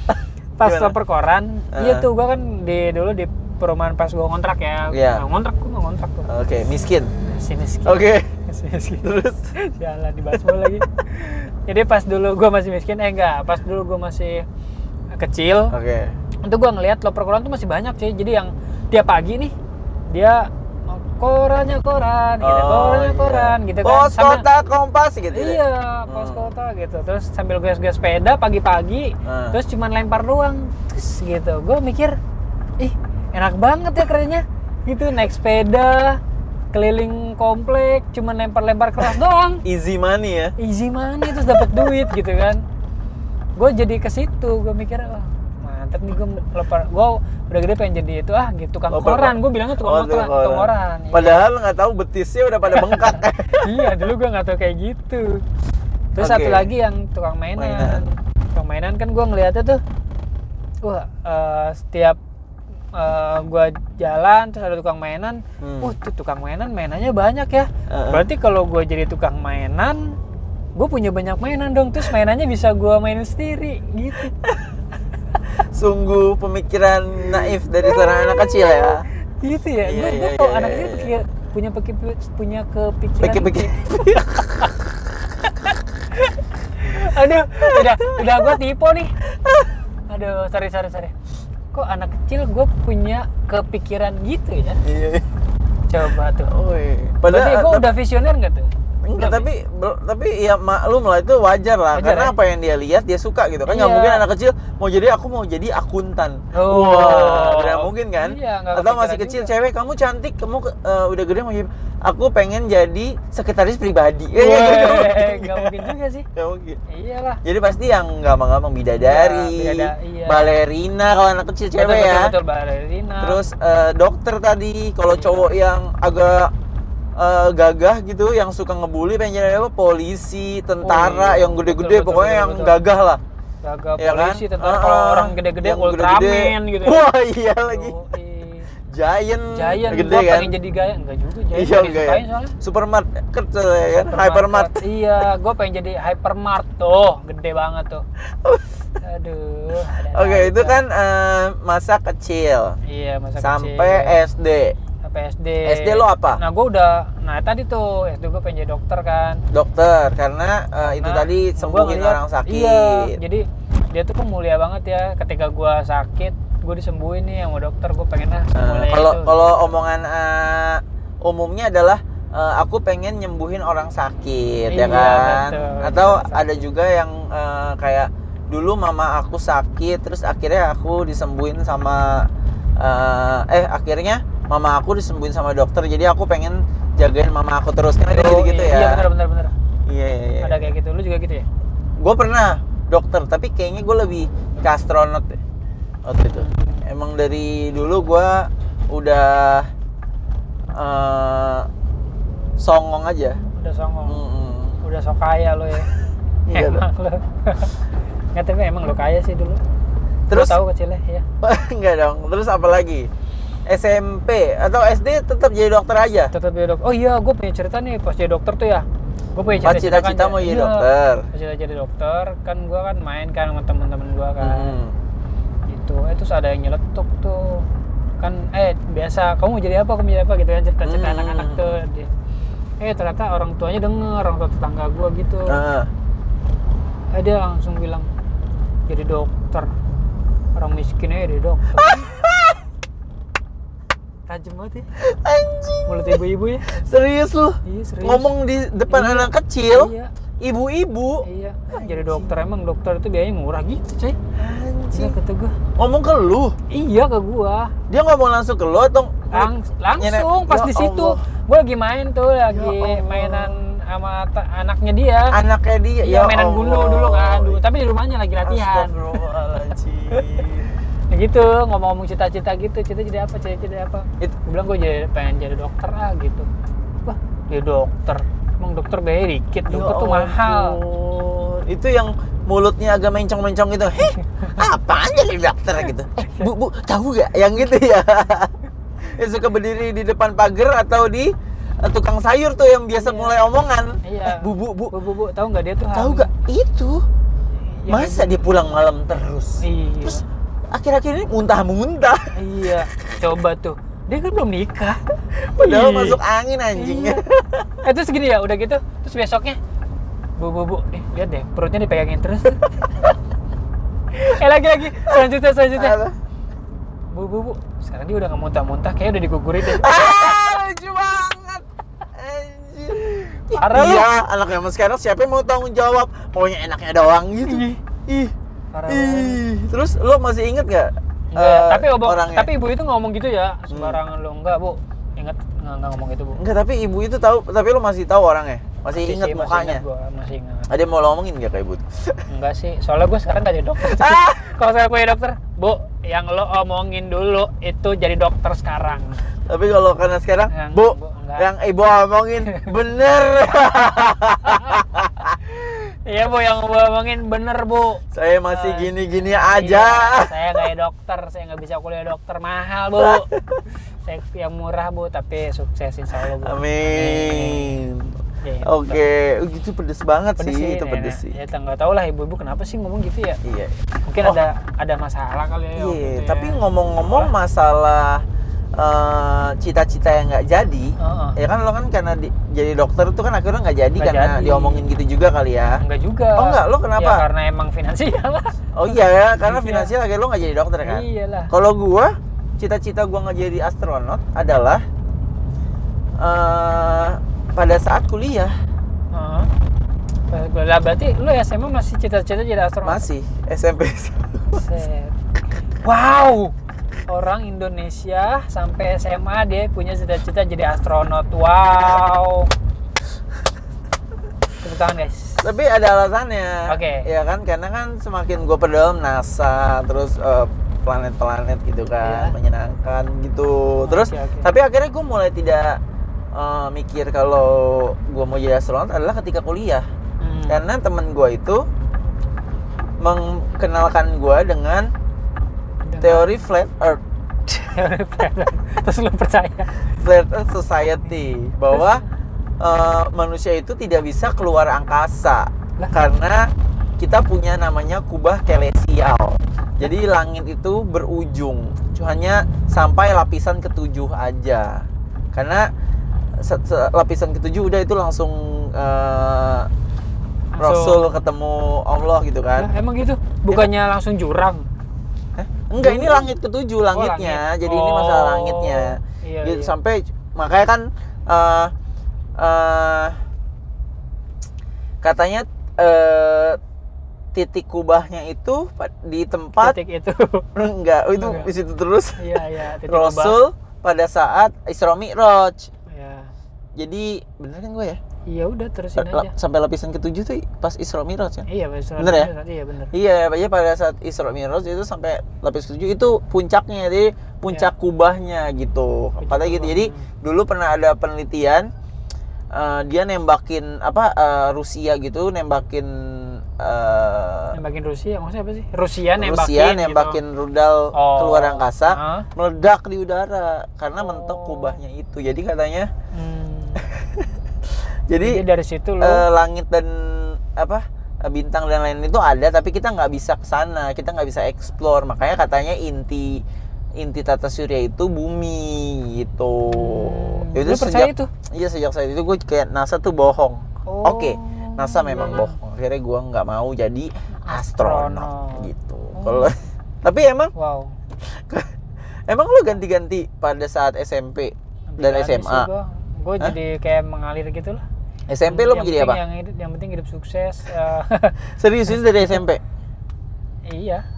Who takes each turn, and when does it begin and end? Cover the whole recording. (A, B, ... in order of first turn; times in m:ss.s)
0:00.1-0:01.0 A
0:00.6-0:06.3 B
0:01.7-0:02.1 A
0:04.9-0:05.2 A
0:06.3-0:07.1 A
0:07.3-0:14.5 B
0:07.8-0:08.3 A
0:09.0-0:09.5 A
0:10.3-0:10.8 A
0:15.2-0:15.7 B
0:15.7-0:16.2 A
0:16.4-0:19.5 B
0:20.1-0:24.5 B
0:22.4-0:26.5 A
0:25.3-0:32.2 B
0:29.2-0:29.6 A
0:32.8-0:36.2 B
0:36.7-0:39.6 B
0:39.6-0:40.5 A
0:40.6-0:42.6 B
0:41.4-0:41.9 A
0:43.6-0:51.4 B
0:48.9-0:53.9 A
0:52.7-0:55.4 B
0:56.2-0:59.8 B
0:56.2-0:56.7 A
0:57.6-0:58.0 A
1:00.8-1:02.2 B
1:03.0-1:10.2 B
1:05.6-1:05.9 A
1:07.9-1:08.3 A
1:10.8-1:14.3 B
1:14.4-1:14.7 A
1:15.7-1:19.1 A
1:17.3-1:24.2 B
1:19.8-1:21.1 A
1:23.2-1:24.7 A
1:25.5-1:29.1 B
1:27.6-1:28.5 A
1:29.4-1:29.7 A
1:30.1-1:31.1 B
1:31.7-1:34.8 B
1:34.8-1:35.3 A
1:35.9-1:36.5 B
1:36.5-1:38.0 A
1:37.3-1:39.5 B
1:39.0-1:56.8 A
1:41.9-1:42.4 B
1:43.7-1:44.2 B
1:46.5-1:49.5 B
1:54.3-1:56.3 B
1:56.9-1:57.4 B
1:57.4-2:02.3 A
1:59.0-2:00.6 B
2:01.8-2:03.4 B
2:03.2-2:06.5 A
2:05.1-2:05.6 B
2:07.2-2:13.2 A
2:10.8-2:12.8 B
2:13.6-2:17.0 B
2:14.0-2:18.0 A
2:17.7-2:18.7 B
2:18.9-2:20.6 A
2:19.5-2:22.5 B
2:21.5-2:24.8 A
2:24.0-2:28.0 B
2:28.3-2:28.8 A
2:29.0-2:30.8 B
2:29.9-2:32.8 A
2:32.8-2:34.2 B
2:33.4-2:34.8 A
2:35.0-2:39.4 B
2:35.6-2:36.4 A
2:39.5-2:43.2 A
2:40.8-2:49.7 B
2:48.5-3:02.3 A
2:54.7-2:56.6 B
3:02.8-3:09.0 A
3:08.1-3:09.5 B
3:09.9-3:10.7 A
3:10.4-3:11.5 B
3:12.0-3:15.4 A
3:16.1-3:19.7 A
3:16.2-3:16.8 B
3:20.7-3:21.7 A
3:22.6-3:23.4 A
3:23.6-3:24.2 B
3:24.1-3:24.8 A
3:24.8-3:25.9 B
3:26.5-3:26.8 A
3:26.5-3:27.8 B
3:28.4-3:29.6 B
3:30.3-3:30.6 A
3:30.3-3:31.2 B
3:31.4-3:33.1 A
3:33.7-3:36.3 A
3:36.3-3:44.8 B
3:39.5-3:41.3 A
3:44.4-3:45.0 A
3:45.7-3:47.7 B
3:48.2-3:52.1 B
3:50.8-3:51.8 A
3:52.8-3:55.6 B
3:55.5-3:55.9 A
3:57.1-3:58.1 B
3:58.9-3:59.7 B
4:00.6-4:02.1 B
4:01.8-4:02.6 A
4:04.3-4:04.9 B
4:05.0-4:12.4 A
4:05.9-4:06.7 B
4:07.6-4:08.3 B
4:08.9-4:10.1 B
4:11.2-4:14.2 B
4:14.4-4:15.2 A
4:14.9-4:15.6 B
4:15.8-4:16.6 A
4:16.7-4:17.7 B
4:17.9-4:21.2 A
4:19.3-4:25.4 B
4:22.5-4:23.5 A
4:25.3-4:27.6 A
4:26.0-4:29.2 B
4:28.4-4:30.7 A
4:31.1-4:36.5 B
4:37.0-4:40.8 B
4:39.7-4:54.9 A
4:44.2-4:44.6 B
4:46.2-4:46.5 B
4:53.0-4:53.3 B
4:54.0-4:56.3 B
4:55.9-4:57.0 A
4:57.8-4:58.5 B
4:57.9-5:02.3 A
4:59.6-5:00.2 B
5:02.3-5:05.0 B
5:05.5-5:07.7 A
5:05.6-5:06.2 B
5:06.7-5:07.2 B
5:07.8-5:09.6 B
5:10.4-5:12.7 B
5:14.1-5:16.0 B
5:15.7-5:16.2 A
5:17.1-5:20.4 B
5:19.6-5:28.3 A
5:23.5-5:24.1 B
5:27.4-5:27.8 B
5:28.7-5:29.4 B
5:28.9-5:32.5 A
5:31.3-5:36.4 B
5:33.7-5:34.0 A
5:36.4-5:39.8 A
5:38.9-5:40.7 B
5:40.7-5:42.2 A
5:42.3-5:49.2 B
5:43.8-5:44.4 A
5:49.5-5:55.4 A
5:50.5-5:51.5 B
5:54.4-5:54.8 B
5:55.4-6:03.3 B
5:58.1-6:00.3 A
6:03.0-6:03.6 A
6:04.0-6:07.8 B
6:06.3-6:11.4 A
6:08.4-6:09.1 B
6:10.4-6:13.4 B
6:13.4-6:14.4 A
6:14.1-6:17.3 B
6:15.8-6:18.2 A
6:18.8-6:25.8 A
6:21.0-6:21.4 B
6:24.0-6:24.8 B
6:25.8-6:29.9 B
6:26.4-6:27.2 A
6:28.8-6:34.8 A
6:30.8-6:31.5 B
6:36.2-6:38.5 A
6:39.1-6:39.5 B
6:40.3-6:43.0 B
6:42.8-6:44.6 A
6:44.5-6:45.2 B
6:45.8-6:46.5 B
6:47.1-6:52.5 B
6:54.6-6:55.5 B
6:55.4-7:05.8 A
6:56.7-6:57.1 B
7:02.0-7:02.4 B
7:03.8-7:04.5 B
7:06.3-7:09.9 A
7:10.2-7:10.6 B
7:10.5-7:11.7 A
7:13.0-7:14.9 A
7:15.9-7:16.3 B
7:16.0-7:17.0 A
7:17.5-7:19.8 B
7:19.9-7:22.0 A
7:21.7-7:22.0 B
7:22.6-7:35.7 A
7:36.4-7:39.7 A
7:40.5-7:41.1 B
7:40.6-7:42.7 A
7:42.6-7:44.7 B
7:45.4-7:51.7 A
7:45.8-7:46.3 B
7:46.9-7:49.7 B
7:52.4-7:53.2 A
7:55.0-7:56.6 A
7:57.3-7:59.8 A
7:59.6-8:00.5 B
8:00.6-8:05.7 A
8:01.2-8:01.5 B
8:02.2-8:03.4 B
8:05.9-8:06.3 B
8:06.8-8:08.0 A
8:08.3-8:09.3 B
8:09.0-8:11.4 A
8:11.5-8:12.9 B
8:12.0-8:12.3 A
8:12.9-8:21.7 A
8:19.2-8:20.1 B
8:22.5-8:27.6 A
8:27.5-8:30.2 B
8:29.2-8:35.9 A
8:30.9-8:32.3 B
8:34.0-8:34.8 B
8:36.1-8:36.9 B
8:36.8-8:37.3 A
8:38.1-8:38.4 A
8:38.2-8:39.3 B
8:39.0-8:46.4 A
8:47.0-9:00.5 A
8:49.7-8:51.3 B
8:53.9-8:55.6 B
8:57.5-8:59.6 B
9:00.6-9:01.0 B
9:01.2-9:01.7 A
9:02.3-9:05.7 A
9:04.9-9:07.8 B
9:08.3-9:09.2 A
9:08.4-9:11.4 B
9:11.6-9:12.6 A
9:12.0-9:12.4 B
9:13.7-9:14.0 B